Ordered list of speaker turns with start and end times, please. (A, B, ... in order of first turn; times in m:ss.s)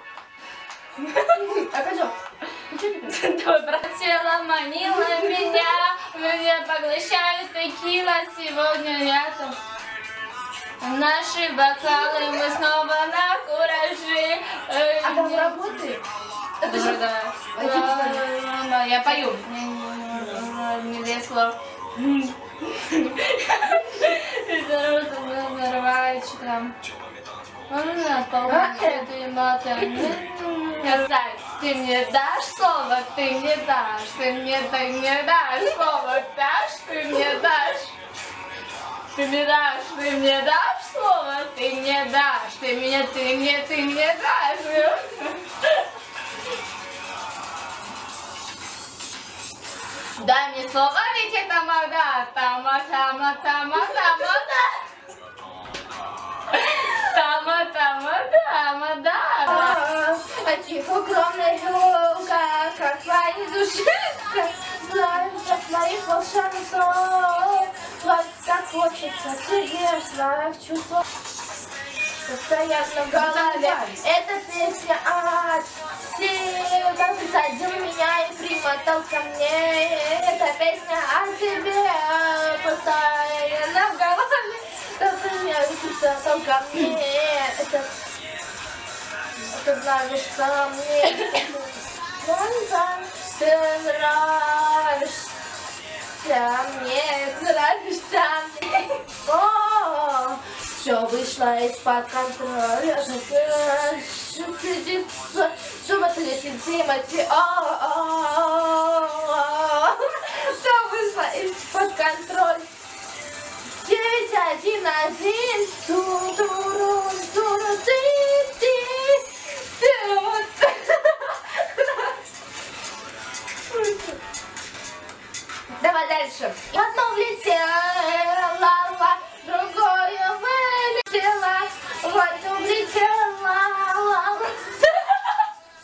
0:01.0-0:01.5 A
0:01.3-0:02.2 B
0:02.7-0:03.1 B
0:03.0-0:09.6 A
0:05.0-0:05.7 B
0:10.8-0:15.7 A
0:15.0-0:16.0 B
0:16.6-0:17.0 B
0:16.6-0:26.8 A
0:17.5-0:18.2 B
0:19.0-0:19.4 B
0:20.1-0:20.5 B
0:27.7-0:37.9 A
0:28.5-0:29.1 B
0:29.8-0:30.2 B
0:39.1-0:45.8 A
0:50.2-0:54.6 A
0:56.5-0:59.8 A
0:59.4-1:11.0 B
1:12.2-1:27.9 B
1:13.1-1:14.0 A
1:29.5-1:35.3 B
1:36.2-1:52.7 B
1:53.8-2:02.1 B
2:03.7-2:04.2 B
2:05.8-2:15.2 B